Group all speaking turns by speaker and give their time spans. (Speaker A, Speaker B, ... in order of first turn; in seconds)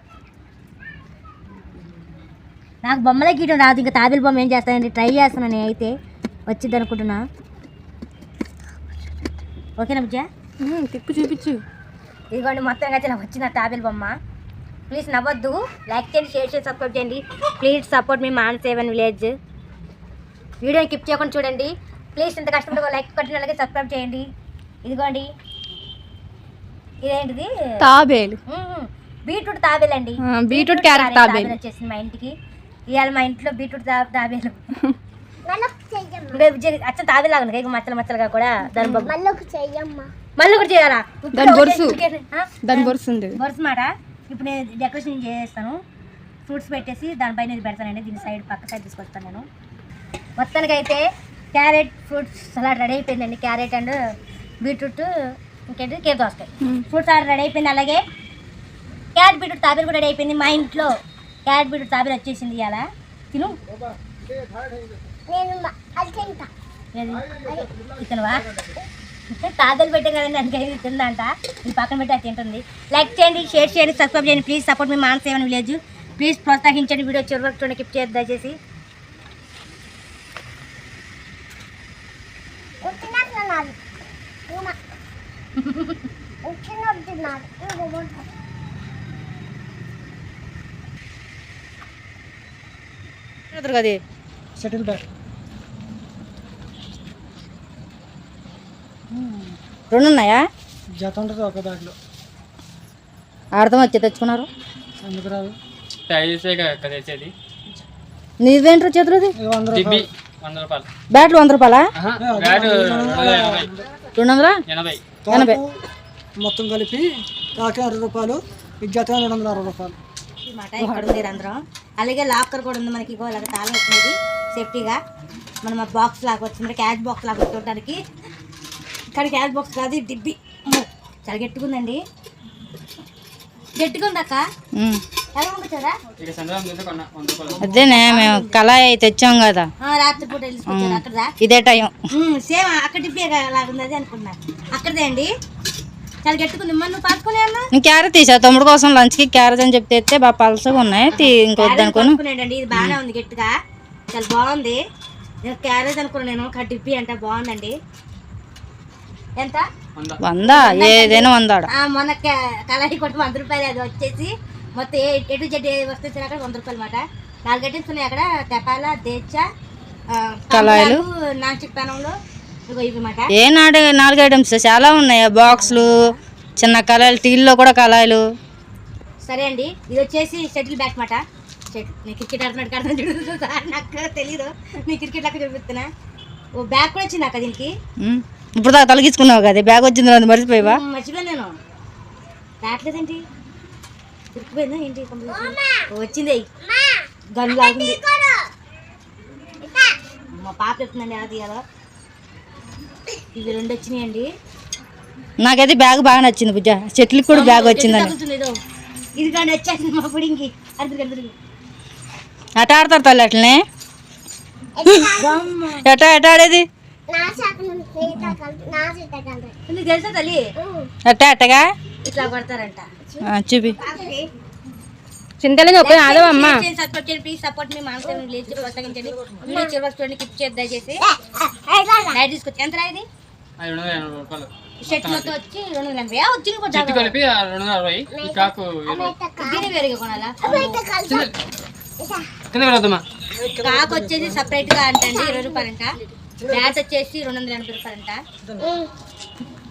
Speaker A: 2.9-5.9, 6.5-7.2, 9.8-10.3, 12.3-14.2, 14.9-19.4, 20.6-24.3, 24.9-25.3, 27.0-27.5, 28.5-32.3, 32.9-34.6, 36.3-39.1, 40.4-45.8, 46.5-49.5, 50.4-54.0, 54.6-55.1, 55.7-58.0, 59.2-60.9, 61.5-63.6, 67.0-67.3, 68.0-68.5, 69.3-78.6, 120.5-125.0, 125.6-128.0, 129.2-132.0, 133.8-134.4, 135.3-136.0, 137.7-138.6, 139.8-141.3, 142.1-145.3, 146.2-147.7, 151.1-153.5, 154.1-154.8, 155.4-157.8, 159.4-159.7, 160.5-169.5, 170.1-172.2, 172.7-173.3, 175.4-176.2, 179.2-185.9, 186.6-187.8, 190.6-191.6, 192.6-193.2, 194.3-196.5, 197.3-198.0, 200.4-201.6, 203.3-204.3, 207.3-208.6, 209.2-211.3, 215.2-215.9, 219.7-220.4, 222.1-222.9, 223.8-224.3, 225.8-231.0, 232.1-233.1, 234.8-237.2, 239.4-240.8, 243.6-245.9, 246.5-248.2
Speaker B: 10.6-11.6, 27.8-28.4, 30.2-31.5, 38.8-39.1, 41.3-42.0, 42.7-43.4, 225.4-226.6
Speaker C: 35.5-36.4, 39.1-40.1, 65.3-66.5, 67.4-67.7, 82.8-83.8, 84.5-84.8, 86.5-88.2, 195.3-195.9, 196.6-198.5, 199.6-200.0, 214.8-215.4, 217.1-219.6, 220.6-220.9, 223.1-224.1, 229.5-229.8, 231.0-232.2, 238.1-239.7, 240.4-241.3, 242.0-242.3, 244.9-245.7, 248.6-248.9
Speaker D: 93.5-94.0, 99.9-100.4, 103.6-104.5, 108.4-109.3, 111.1-111.8, 114.2-114.6, 115.3-115.6, 134.8-135.0, 137.6-139.7, 140.7-142.0, 147.7-152.2, 160.2-161.7, 170.5-171.0, 173.3-178.2, 188.0-190.8, 205.4-208.1, 212.6-213.6, 214.8-215.1, 215.8-216.7, 218.1-218.4, 221.1-221.7, 223.2-223.8
Speaker E: 94.6-95.0, 101.0-102.0, 105.0-105.5, 109.4-110.1, 112.2-113.9, 115.3-115.7, 116.4-117.0, 117.6-120.0, 120.8-121.1, 243.4-244.7, 246.4-246.8
Speaker F: 106.1-107.3, 109.7-110.9, 112.0-113.7, 114.7-115.0, 136.2-137.7, 160.0-160.2, 233.6-235.3, 236.7-239.2, 242.5-243.0